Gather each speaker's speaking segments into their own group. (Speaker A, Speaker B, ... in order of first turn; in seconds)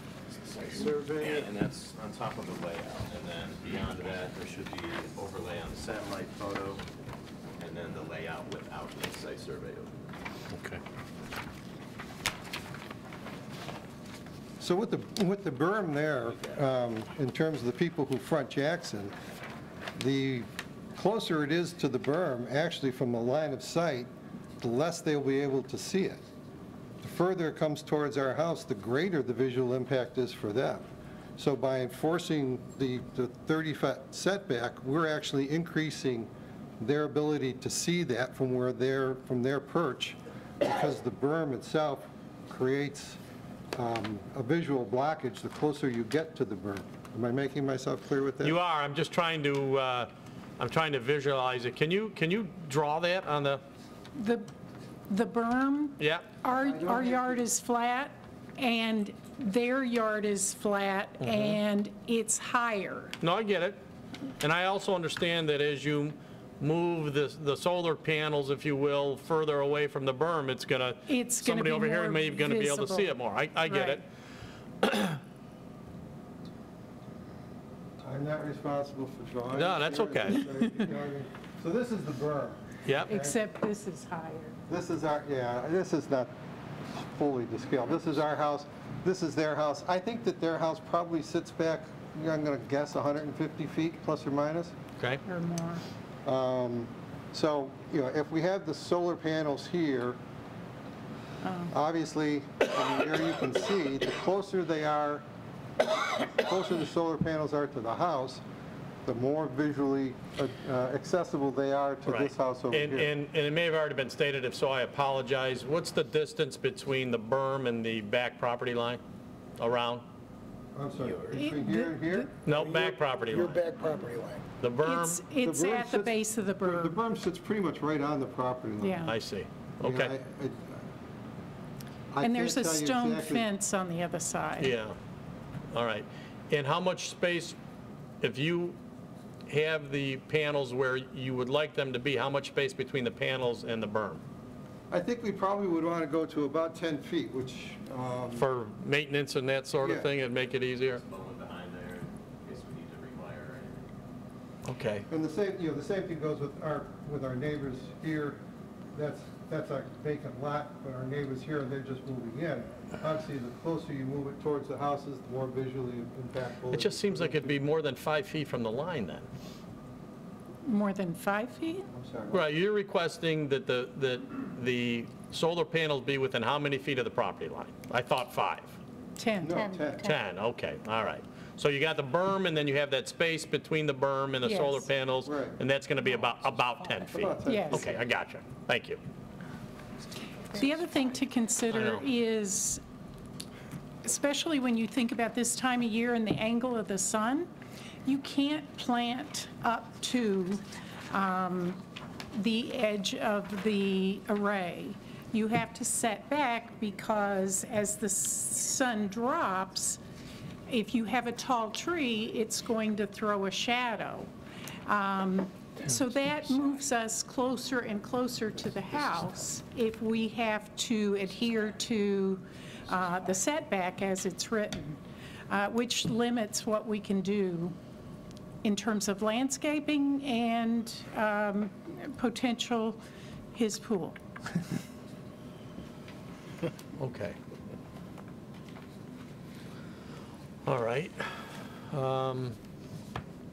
Speaker A: 0.5-6.8, 7.6-9.9, 150.9-153.9
Speaker B: 0.7-1.4, 14.6-19.1, 20.0-24.1, 24.6-26.2, 27.0-43.2, 43.8-48.6, 56.5-57.5, 78.0-83.4, 84.7-86.3, 87.0-94.8, 96.2-100.2, 101.7-105.2, 106.2-108.4, 109.0-113.1, 120.7-124.4, 125.4-129.1, 129.8-130.8, 132.1-133.5, 144.9-148.5, 149.8-150.1, 155.1-158.4, 158.9-167.6, 171.9-172.5, 179.4-180.2, 185.2-185.6, 187.1-188.0
Speaker C: 10.5-10.8, 48.4-53.6, 56.0-56.3, 61.2-61.6, 63.2-63.8, 64.4-74.0, 74.8-75.2, 79.5-80.8, 82.9-83.1, 112.1-119.0, 119.6-120.0, 122.5-123.6, 124.6-125.2, 129.1-130.2, 134.6-135.0, 135.7-137.6, 138.2-138.8, 139.5-144.2, 148.3-151.0, 154.7-155.1, 166.7-169.3, 172.3-178.8, 180.0-189.0, 191.7-192.1, 237.0-237.4, 240.7-242.6
Speaker D: 54.1-54.5, 55.1-63.2, 71.1-74.0, 83.1-84.6, 95.3-95.8, 101.4-101.7, 121.3-122.3, 124.8-127.0, 128.8-129.2, 132.2-134.8, 170.6-171.9, 179.2-179.9, 184.4-184.9, 187.4-187.9, 190.5-192.8, 194.0-197.5, 198.1-201.8, 202.3-210.0, 210.7-214.3, 214.9-227.8, 228.6-233.0, 233.5-234.2